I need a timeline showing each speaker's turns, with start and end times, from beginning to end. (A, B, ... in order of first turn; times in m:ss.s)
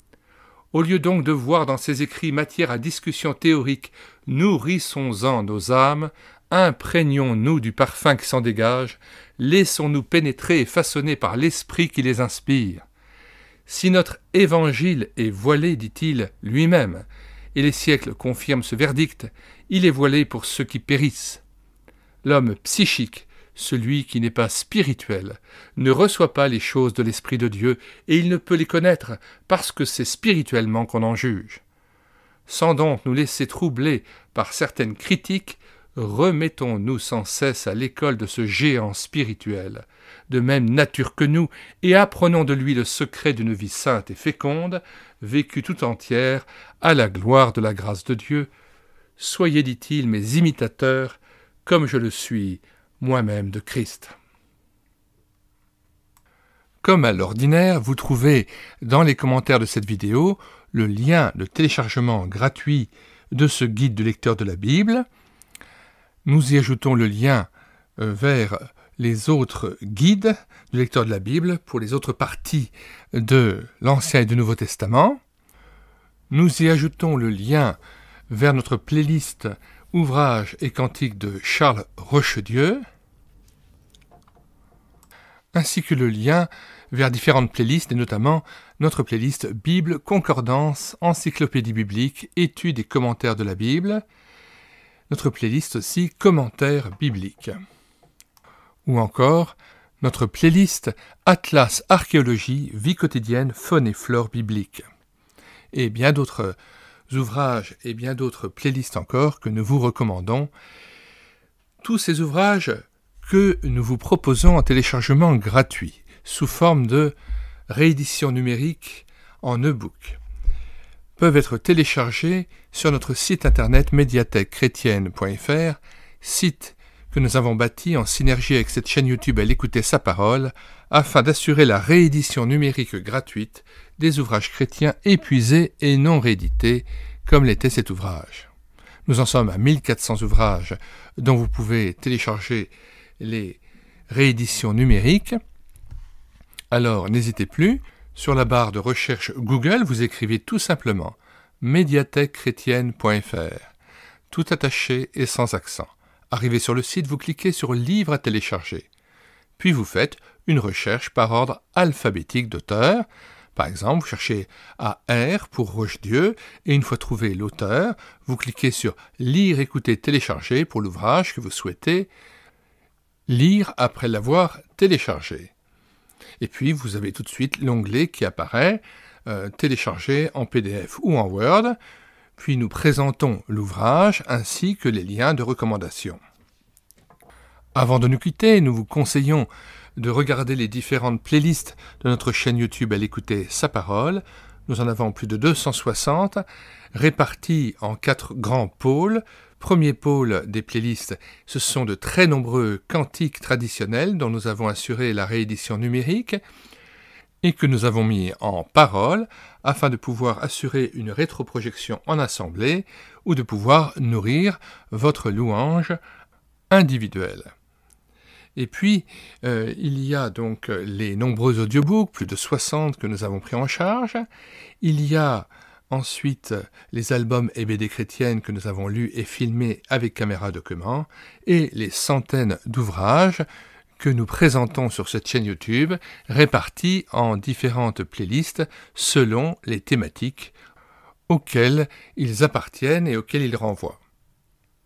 0:00.7-0:12.8 A
0:13.6-0:21.4 A
0:22.2-0:31.6 A
0:32.5-0:48.5 A
0:49.2-0:54.1 A
0:56.8-1:05.0 A
1:06.2-1:15.2 A
1:16.3-1:17.8 A
1:18.3-1:22.8 A
1:25.5-1:34.0 A
1:35.1-1:37.6 A
1:38.8-1:44.8 A
1:45.7-1:46.6 A
1:47.1-1:50.5 A
1:51.8-1:57.2 A
1:57.7-2:00.2 A
2:01.2-2:18.5 A
2:19.1-2:25.4 A
2:26.7-2:33.7 A
2:34.3-2:38.9 A
2:39.6-2:52.1 A
2:53.3-2:55.5 A
2:56.4-3:01.8 A
3:02.4-3:06.2 A
3:07.7-3:26.4 A
3:27.4-3:36.0 A
3:36.7-3:37.5 A
3:38.6-3:44.2 A
3:44.8-3:53.4 A
3:54.0-4:00.5 A
4:01.3-4:04.0 A